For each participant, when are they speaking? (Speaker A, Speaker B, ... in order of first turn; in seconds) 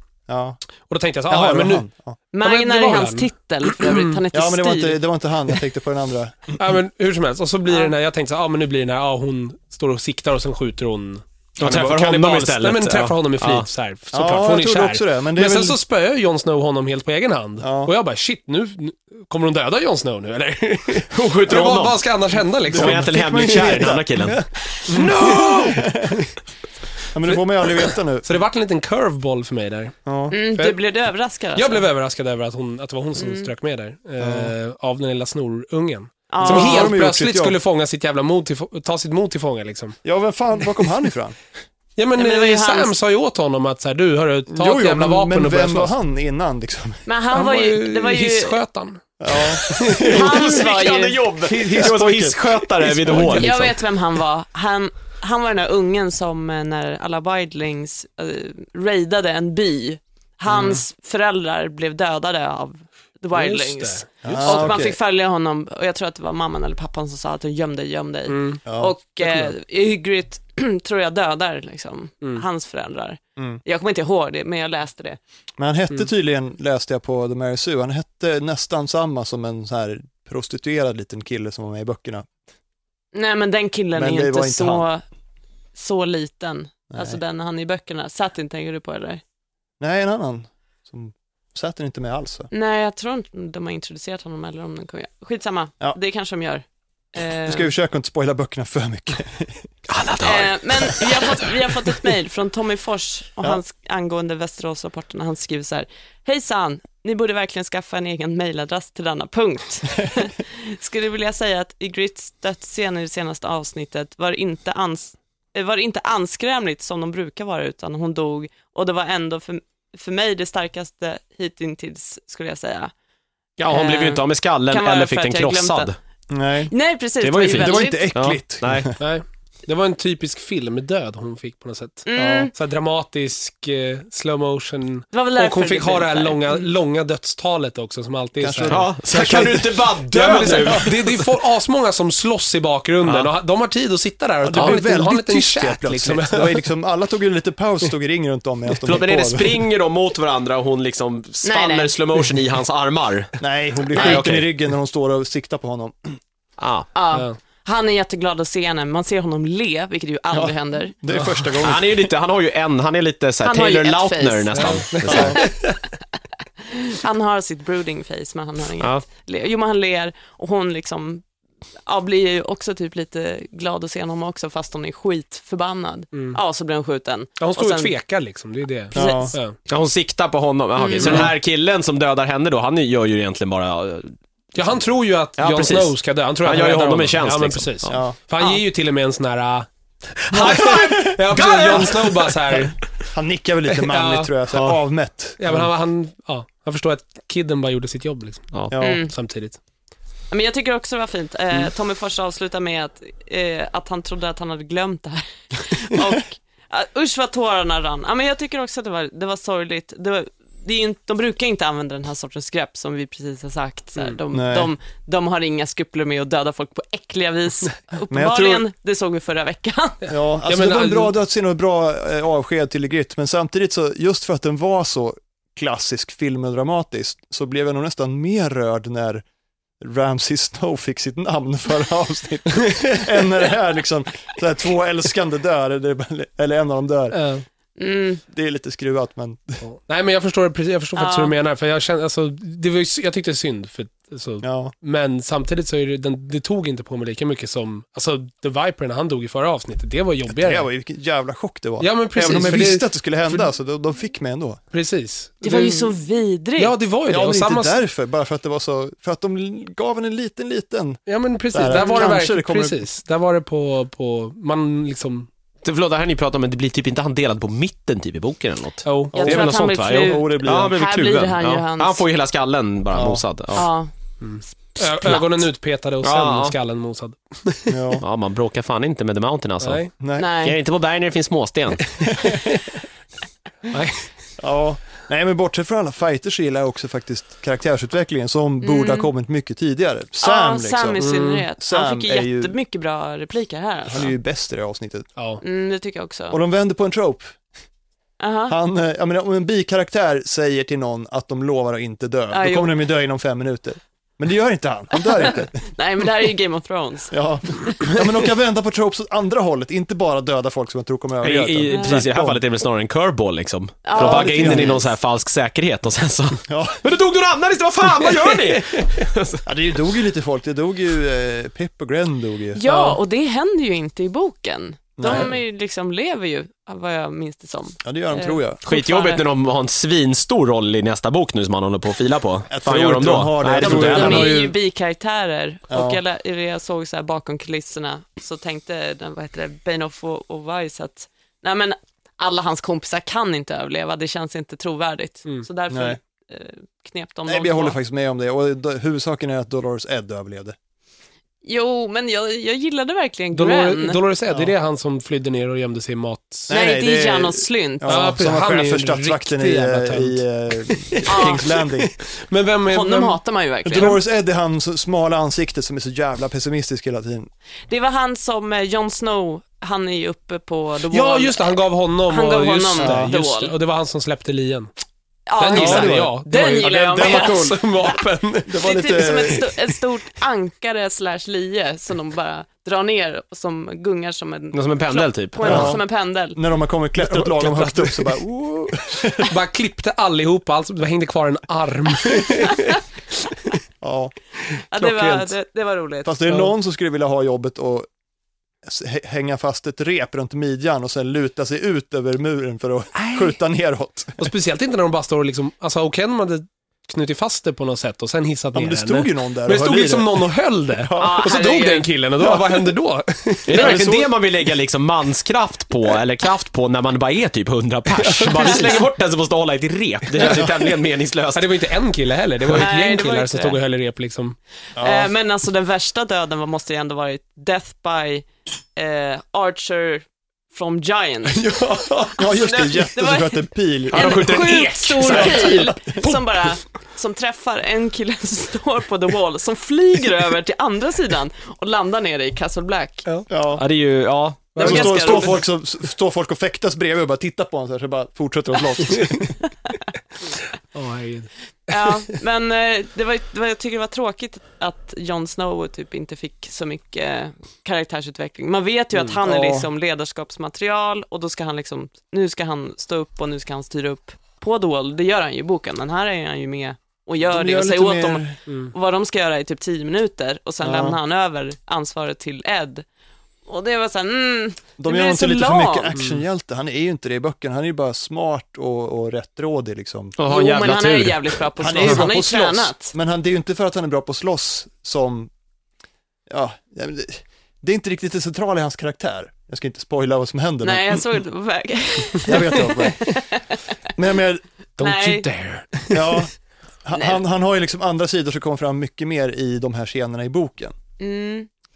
Speaker A: 0.3-0.6, 1.3-2.2, 4.3-6.6, 14.1-15.8, 17.6-17.9, 22.7-26.3, 27.1-28.3, 30.0-30.4, 34.2-34.5, 36.4-37.6, 40.0-41.4, 44.5-47.0, 49.2-50.2, 51.5-53.5, 64.2-65.0, 68.7-68.9, 75.6-82.3, 84.0-84.8, 86.9-87.2, 89.8-92.5, 97.5-99.7, 126.3-126.7, 127.5-129.0, 132.1-132.5, 138.4-140.9, 144.4-149.7, 153.4-156.2, 160.3-162.1, 165.0-165.5, 178.9-179.3, 187.9-188.2, 190.3-191.8, 192.5-195.7, 198.7-199.0, 214.3-214.7, 218.1-218.6, 220.1-229.2, 229.8-237.2, 238.3-239.6, 244.4-244.7, 250.2-254.6, 257.1-261.0, 261.5-262.8, 269.1-270.8, 272.9-273.2, 277.7-278.0, 280.0-280.3, 282.1-282.6, 284.4-292.6, 293.9-295.1, 296.3-297.3, 298.5-305.7, 307.1-312.4, 313.9-314.8, 316.5-316.8, 319.4-322.6, 325.0-325.3, 327.8-328.6, 332.5-334.6, 335.7-336.0, 345.7-346.0, 347.3-350.6, 354.3-354.5, 356.5-361.9, 363.6-367.3, 372.8-373.1, 375.5-377.7, 378.4-379.5, 385.4-389.3, 393.8-394.1, 394.8-395.3, 396.0-397.9, 398.6-404.3, 408.5-411.3, 412.2-412.7, 413.5-414.1, 424.8-425.1, 432.1-434.4, 435.1-436.1, 443.3-443.6, 444.6-449.4, 459.2-459.7, 467.3-468.4, 470.6-471.0, 474.8-480.1, 481.6-485.3, 486.3-491.0, 492.2-493.1, 493.9-494.4, 495.9-496.3, 496.8-500.7
Speaker B: 0.8-1.8, 2.4-4.2, 6.6-23.8, 24.9-26.3, 27.3-29.9, 30.5-30.8, 31.5-40.0, 42.0-45.9, 47.3-50.5, 51.5-51.9, 53.0-53.4, 63.3-64.8, 68.3-68.6, 69.2-69.5, 129.0-139.4, 140.1-146.6, 161.1-161.5, 164.5-165.4, 176.1-176.4, 177.4-179.6, 181.0-181.3, 184.5-189.7, 190.2-192.8, 193.8-194.3, 195.4-199.6, 220.1-221.1, 237.1-237.4, 239.6-250.7, 251.8-253.5, 254.7-255.9, 256.6-257.7, 261.1-265.3, 268.8-269.2, 274.2-277.8, 279.6-279.9, 283.7-284.1, 291.0-291.4, 295.1-295.4, 318.4-318.8, 322.6-323.0, 353.3-356.5, 357.8-363.2, 370.9-374.7, 375.4-379.1, 387.0-388.1, 389.2-392.8, 402.9-403.3, 404.2-413.9, 417.9-418.8, 420.1-420.6, 421.3-424.4, 431.4-432.1, 435.0-435.5, 444.6-445.4, 448.9-449.2, 450.7-451.3, 468.5-468.7, 475.9-476.2, 494.8-496.2
Speaker C: 2.3-5.0, 30.3-31.8, 33.2-33.5, 36.3-37.0, 42.2-42.9, 47.0-48.6, 50.0-51.3, 53.3-75.2, 83.1-85.0, 85.7-89.2, 92.5-97.7, 100.2-122.9, 123.7-125.9, 126.7-128.1, 132.1-132.5, 135.1-136.7, 151.4-151.9, 156.9-160.9, 163.4-164.8, 165.3-165.7, 166.6-171.2, 171.8-177.9, 178.9-179.3, 180.8-181.3, 198.8-199.1, 200.3-220.0, 237.8-238.2, 240.9-241.3, 255.4-256.8, 261.7-262.1, 269.1-272.0, 273.5-273.9, 274.8-275.3, 280.1-280.6, 288.6-289.1, 290.2-294.1, 295.4-296.4, 298.2-298.6, 302.3-302.8, 305.2-307.1, 311.7-312.0, 313.8-314.8, 322.5-329.2, 333.6-347.8, 351.4-354.0, 356.5-358.1, 361.1-361.4, 362.7-364.0, 367.7-373.5, 375.3-377.6, 378.6-386.4, 394.7-396.2, 410.9-411.9, 422.5-423.6, 424.8-431.5, 432.1-443.1, 444.5-445.4, 451.7-472.8, 473.4-475.9, 480.2-482.9, 490.6-493.6, 494.8-495.3, 496.9-497.2, 501.0-501.5
Speaker D: 11.6-13.7, 21.1-22.0, 22.7-24.4, 50.0-53.8, 99.9-101.4, 123.6-125.9, 127.2-128.9, 138.7-141.2, 143.0-143.3, 148.8-153.4, 153.9-154.5, 156.6-156.9, 161.6-165.5, 179.7-184.1, 185.4-187.9, 190.3-192.3, 265.6-273.7, 276.0-276.6, 278.0-279.9, 280.4-282.0, 311.2-319.4, 328.6-334.4, 384.5-385.7, 413.5-421.6, 433.9-435.7, 443.6-444.6, 480.2-482.0